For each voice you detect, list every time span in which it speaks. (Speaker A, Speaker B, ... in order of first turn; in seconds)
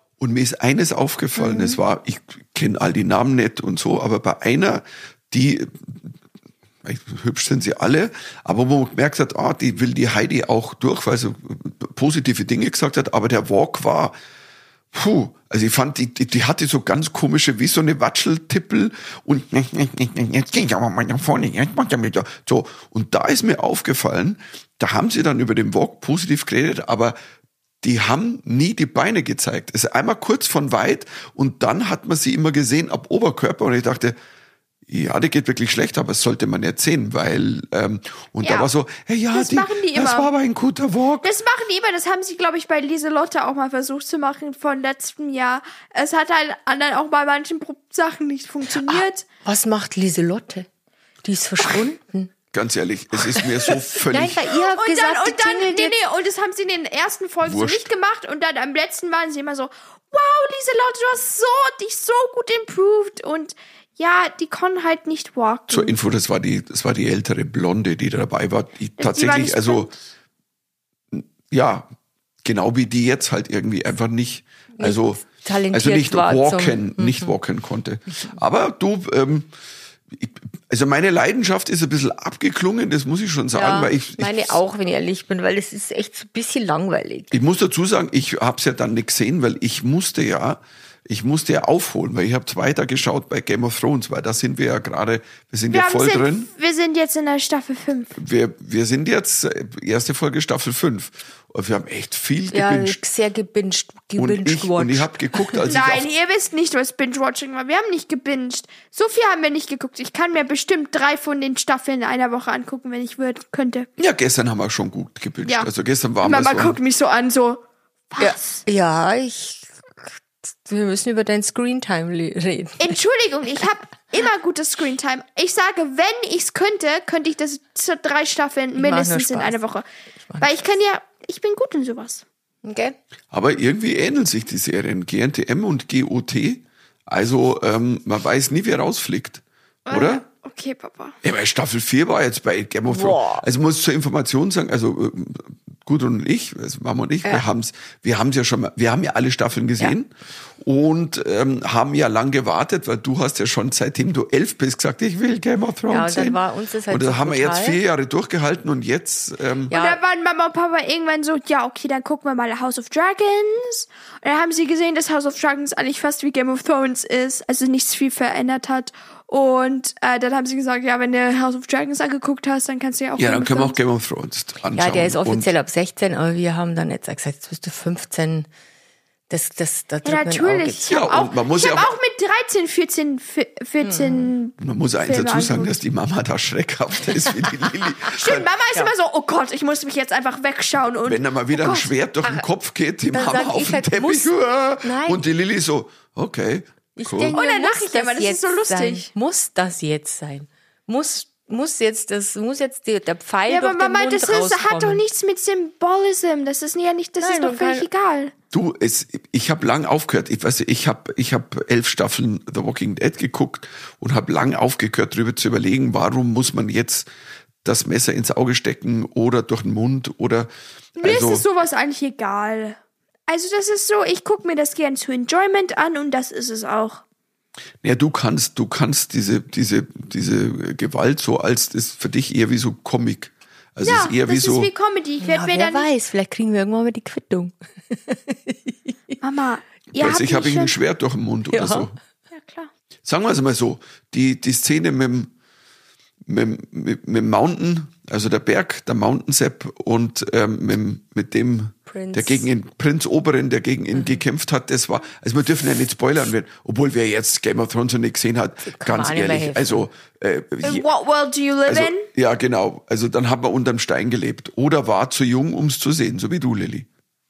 Speaker A: 0.2-6.1, 6.8-14.2, 14.9-27.2, 27.8-34.2, 34.9-41.3, 52.5-54.4, 57.4-57.9, 65.7-69.9, 71.1-71.9, 72.4-79.5, 80.1-84.6, 87.3-96.5, 98.2-103.0, 104.2-106.1, 114.0-116.8, 133.3-140.2, 141.2-159.7, 173.2-175.5, 180.9-181.9, 184.6-188.5, 191.1-197.4, 208.5-217.1, 217.6-221.4, 227.8-234.7, 239.9-241.9, 243.1-245.3, 246.3-260.9, 261.7-266.9
Speaker B: 1.4-1.8, 48.8-50.7, 51.2-52.3, 53.4-56.0, 74.8-77.3, 83.5-87.4, 102.5-105.7, 118.2-123.0, 128.8-129.6, 130.3-130.6, 132.6-132.9, 142.9-143.5, 155.9-157.8, 159.7-160.0, 174.7-178.5, 179.3-180.9, 183.8-184.3, 193.1-195.2, 197.0-205.0, 207.2-207.9, 235.2-239.2, 241.5-241.9, 251.9-252.5, 258.6-259.9
Speaker C: 38.4-38.7, 39.3-40.3, 41.2-49.2, 54.6-66.0, 69.0-69.9, 95.7-98.1, 105.7-113.9, 116.2-118.7, 122.8-129.9, 130.4-132.2, 139.9-141.2, 159.7-173.8, 180.0-185.8, 188.1-191.9, 197.3-199.1, 203.5-208.3, 221.0-227.0, 233.8-235.9, 239.2-240.8, 242.3-242.7, 260.6-262.1